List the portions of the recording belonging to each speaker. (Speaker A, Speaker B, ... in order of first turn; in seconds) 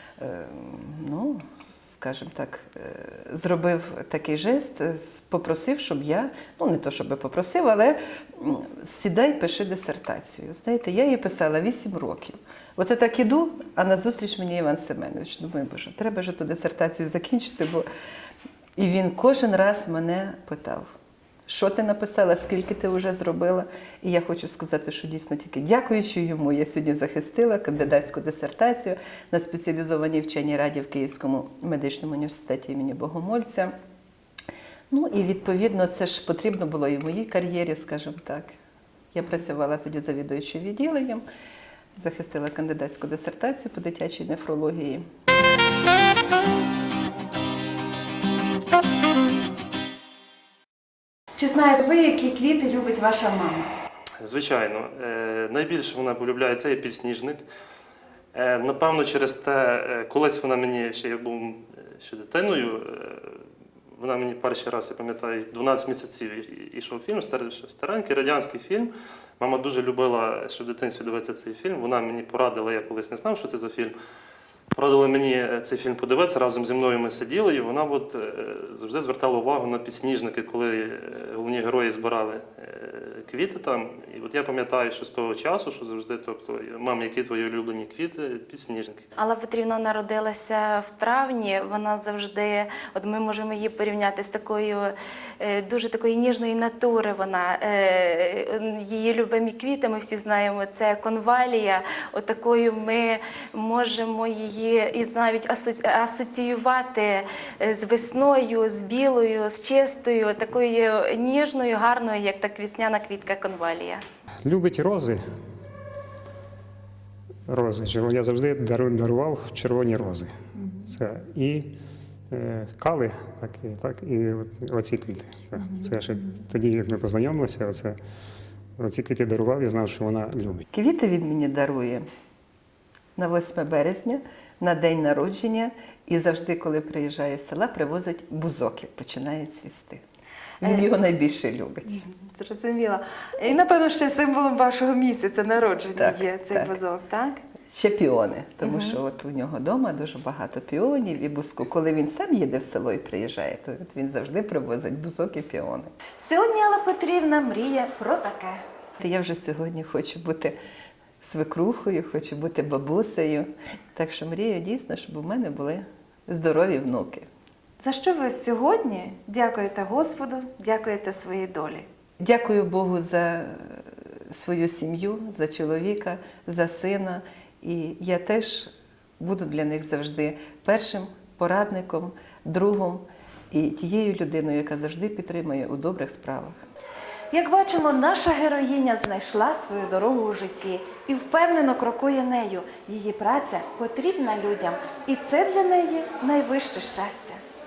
Speaker A: 0.2-17.9, 18.8-20.9, 21.5-33.7, 34.9-38.5, 39.1-41.2, 42.0-45.0, 130.7-132.0, 133.2-140.0, 140.6-142.0, 146.0-146.7, 147.7-155.9, 159.0-160.5, 161.2-167.2, 172.2-178.7, 179.2-186.6
Speaker B: 51.4-53.7, 142.0-147.4, 148.6-149.0, 156.2-158.6, 167.8-171.8, 187.3-197.4
Speaker C: 54.2-57.4, 58.3-63.4, 64.0-73.9, 74.7-89.0
Speaker D: 89.2-114.0
Speaker E: 114.4-115.2, 117.5-121.7, 122.3-128.0, 128.8-130.6